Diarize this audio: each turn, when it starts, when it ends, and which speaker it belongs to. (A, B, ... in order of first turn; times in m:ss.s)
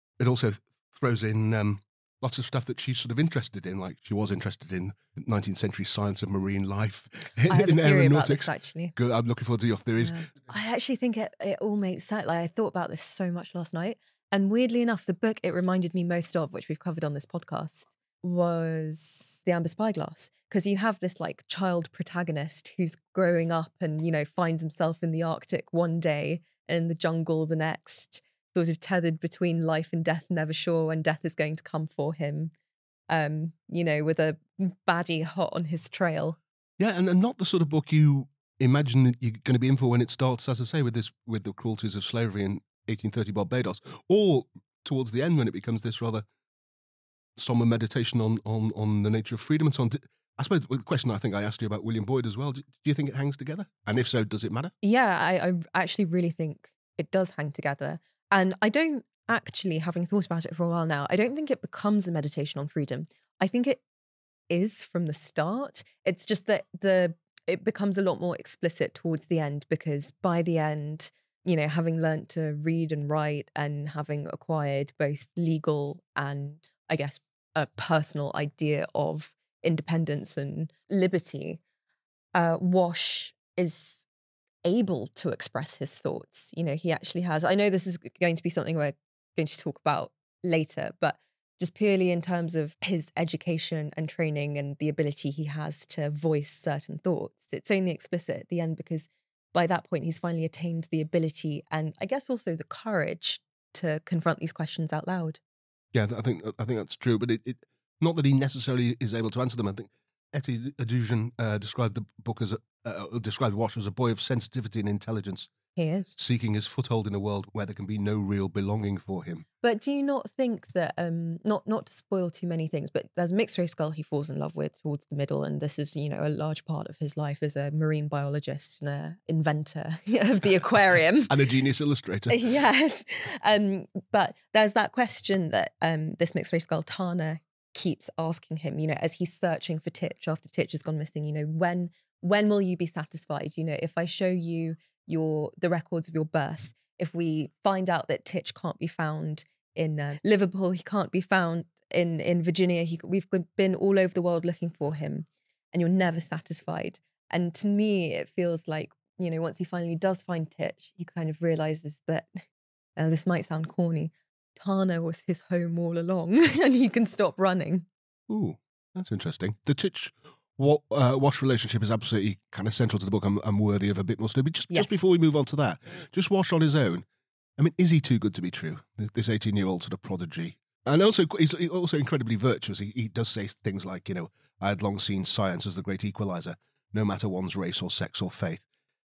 0:00.2-0:10.3 A
0:07.5-0:08.9 B
0:10.0-0:32.5 B
0:33.1-0:36.4 B
0:36.8-0:46.2 A
0:47.4-0:54.7 A
0:54.8-1:03.8 B
1:04.5-1:21.6 B
1:22.3-1:24.0 B
1:24.6-1:45.4 B
1:45.9-1:55.5 A
1:55.7-1:56.2 B
1:56.2-1:59.4 A
1:59.6-2:11.4 B
2:11.3-2:12.4 A
2:12.3-2:42.4 B
2:43.0-2:47.9 B
2:48.3-2:57.0 A
2:54.7-2:55.0 B
2:57.6-3:08.6 A